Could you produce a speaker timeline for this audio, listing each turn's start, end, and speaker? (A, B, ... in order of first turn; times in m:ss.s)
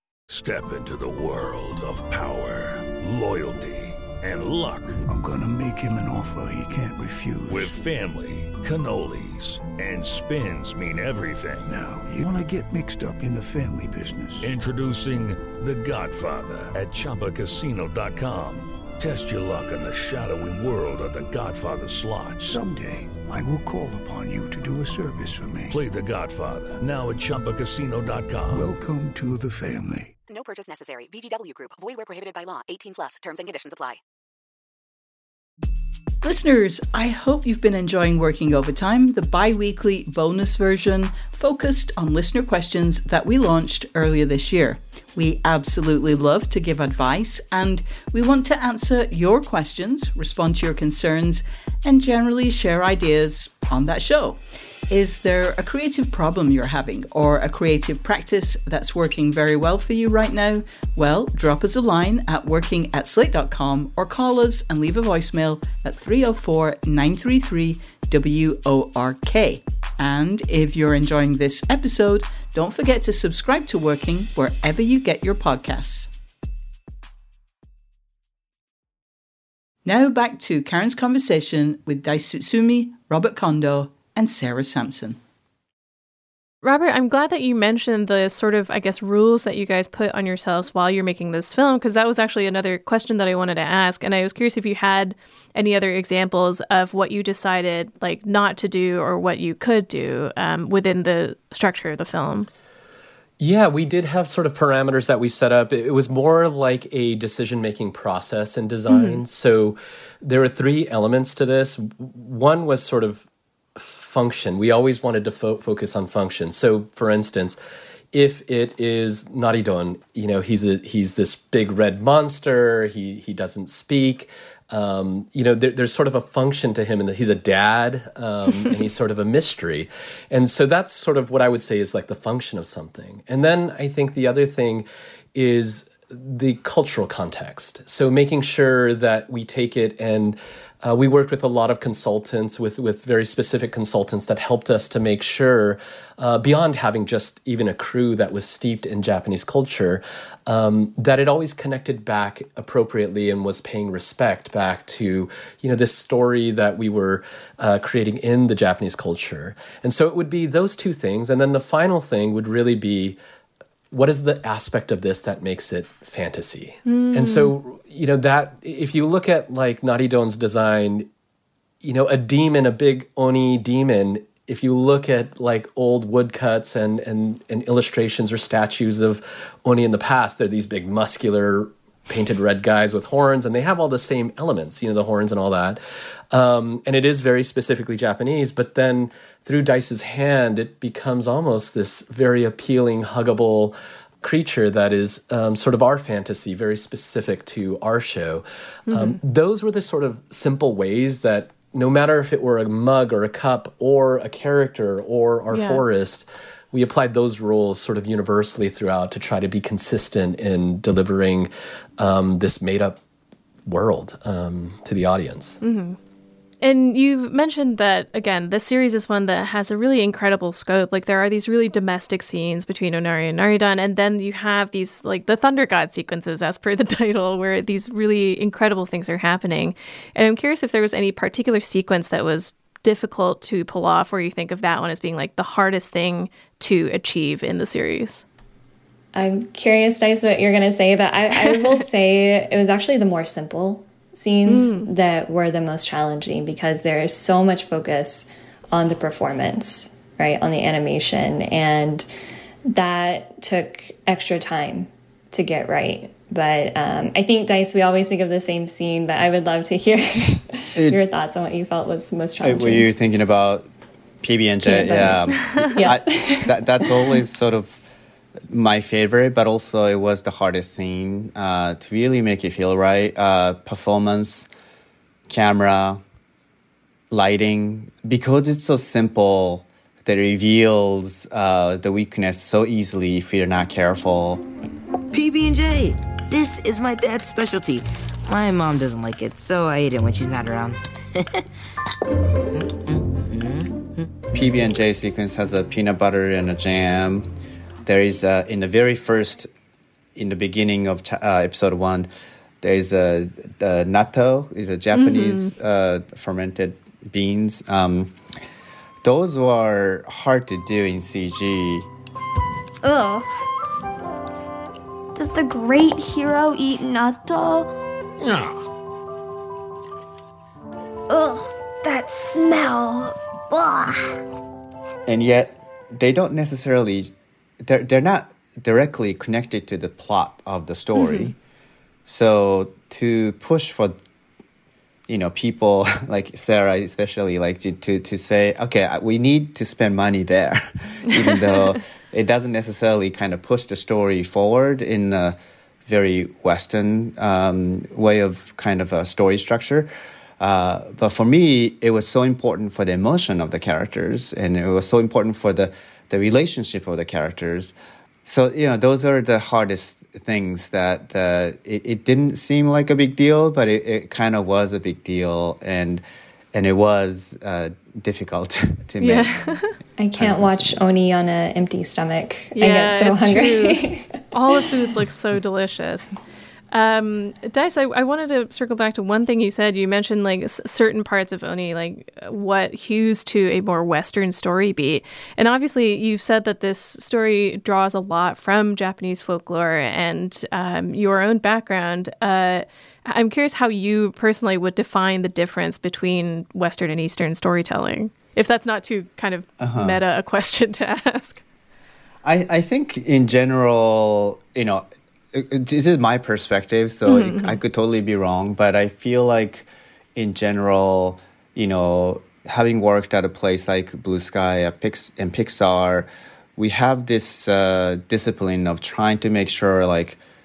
0:00.3-0:05.0 A
0:05.0-0:07.8 B
0:07.5-0:11.7 A
0:11.6-0:14.6 B
0:14.4-0:22.6 A
0:22.4-0:25.8 B
0:25.7-0:28.7 A
0:28.5-0:30.1 B
0:30.3-0:34.0 C
0:36.2-1:16.1 D
1:19.8-1:25.2 D
1:26.6-1:42.5 E
1:43.4-1:53.2 F
1:48.9-1:49.2 E
1:53.8-1:57.6 F
1:58.1-2:43.2 F
2:43.9-2:51.1 F
2:46.8-2:47.5 E
2:51.8-3:33.0 F
3:18.9-3:19.2 E
3:25.5-3:25.8 E
3:33.6-3:35.6 F
3:35.6-3:36.0 E
3:36.6-3:58.2 E
3:59.1-4:12.1 G
4:04.5-4:04.9 E
4:12.7-4:22.9 G
4:20.8-4:21.0 H
4:22.4-4:23.6 H
4:24.2-4:27.8 H
4:24.6-4:27.2 G
4:28.5-4:34.5 H
4:35.3-4:36.0 H
4:37.1-4:44.4 H
4:45.2-4:45.8 I
4:45.2-4:45.9 J
4:46.4-4:47.4 I
4:46.4-4:50.7 J
4:48.3-4:50.0 I
4:52.5-4:54.6 J
4:54.3-4:57.3 H
4:57.8-4:59.5 H
5:00.2-5:02.1 H
5:02.6-5:08.1 H
5:04.9-5:05.5 E
5:09.0-5:11.9 H
5:12.8-5:13.2 I
5:15.1-5:17.7 I
5:21.1-5:24.1 I
5:25.0-5:27.1 H
5:27.6-5:31.3 H
5:31.0-5:31.3 E
5:32.0-5:33.9 H
5:35.1-6:06.0 H
5:41.1-5:41.4 E
6:06.5-6:09.4 H
6:09.0-6:09.7 E
6:10.0-6:14.6 G
6:10.2-6:10.7 H
6:12.5-6:13.8 E
6:14.3-6:16.2 E
6:16.7-6:41.4 E
6:39.6-6:40.0 H
6:42.2-7:00.2 H
6:47.0-6:47.6 E